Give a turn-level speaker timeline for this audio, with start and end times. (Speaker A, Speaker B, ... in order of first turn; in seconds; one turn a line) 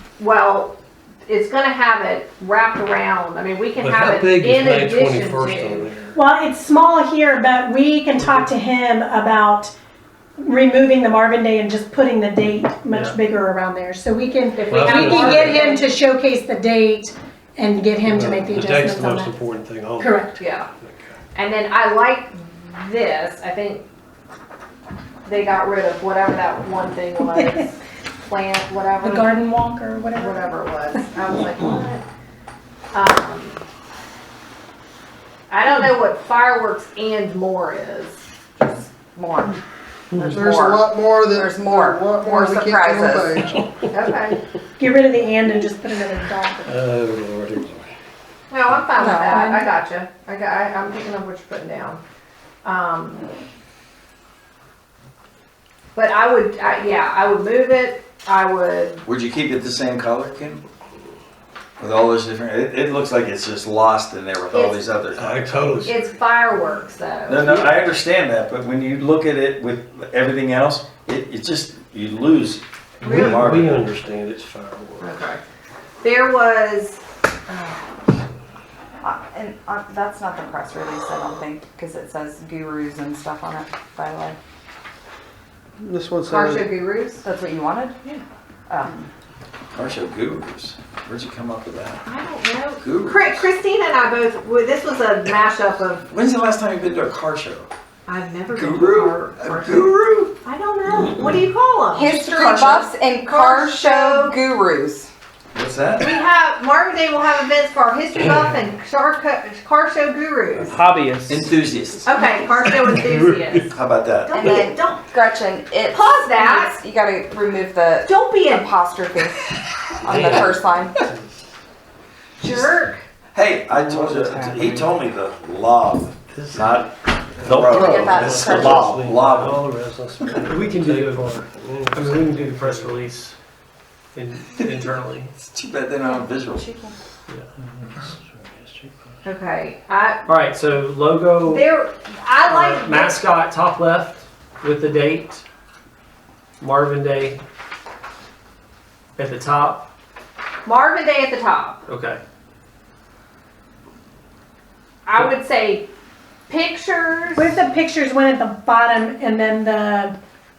Speaker A: 0.2-5.9
Speaker B: 3.8-6.2
Speaker C: 6.2-9.7
Speaker D: 8.2-8.5
Speaker C: 10.4-19.4
Speaker D: 12.9-13.2
Speaker A: 14.6-15.9
Speaker B: 14.7-15.6
Speaker B: 18.0-21.2
Speaker C: 20.0-20.4
Speaker A: 20.4-20.7
Speaker A: 21.4-23.9
Speaker A: 25.2-29.5
Speaker C: 27.3-27.6
Speaker C: 29.0-30.5
Speaker A: 30.2-32.0
Speaker A: 32.9-33.6
Speaker A: 35.5-38.3
Speaker E: 38.6-39.6
Speaker E: 40.1-43.4
Speaker F: 40.3-43.5
Speaker A: 43.9-44.4
Speaker C: 44.8-46.8
Speaker B: 46.6-47.9
Speaker A: 48.5-52.0
Speaker E: 49.0-49.7
Speaker C: 49.3-49.6
Speaker A: 52.6-53.2
Speaker A: 56.0-59.0
Speaker G: 59.1-60.6
Speaker G: 61.8-65.7
Speaker A: 64.5-64.9
Speaker B: 65.2-66.1
Speaker A: 65.8-67.8
Speaker G: 67.3-73.8
Speaker B: 73.0-75.2
Speaker A: 73.0-73.4
Speaker A: 75.0-75.4
Speaker A: 76.0-77.9
Speaker E: 79.0-84.4
Speaker F: 85.8-86.7
Speaker A: 86.3-87.2
Speaker E: 87.2-88.0
Speaker E: 88.7-89.1
Speaker G: 89.7-92.0
Speaker A: 92.0-96.0
Speaker G: 92.8-93.5
Speaker G: 96.1-97.7
Speaker A: 98.1-104.4
Speaker G: 98.5-100.3
Speaker E: 101.9-105.1
Speaker G: 105.5-106.2
Speaker A: 106.0-110.8
Speaker D: 110.7-111.4
Speaker G: 111.3-112.2
Speaker A: 112.0-115.1
Speaker B: 112.8-113.6
Speaker G: 113.7-114.3
Speaker E: 114.3-119.5
Speaker A: 115.9-116.8
Speaker A: 118.0-118.7
Speaker E: 120.0-121.0
Speaker B: 120.1-121.4
Speaker A: 122.4-123.1
Speaker G: 123.3-129.6
Speaker E: 124.0-124.8
Speaker B: 126.3-133.0
Speaker E: 127.7-128.9
Speaker D: 130.4-131.4
Speaker D: 131.9-133.4
Speaker D: 134.2-135.3
Speaker G: 135.4-136.7
Speaker E: 136.1-137.0
Speaker B: 137.6-139.0
Speaker A: 139.2-140.3
Speaker D: 140.3-141.7
Speaker A: 141.4-143.2
Speaker D: 142.4-145.4
Speaker D: 146.6-147.4
Speaker D: 149.2-149.9
Speaker A: 150.7-151.8
Speaker D: 151.9-152.2
Speaker A: 155.1-155.9
Speaker A: 156.5-157.6
Speaker C: 157.3-160.2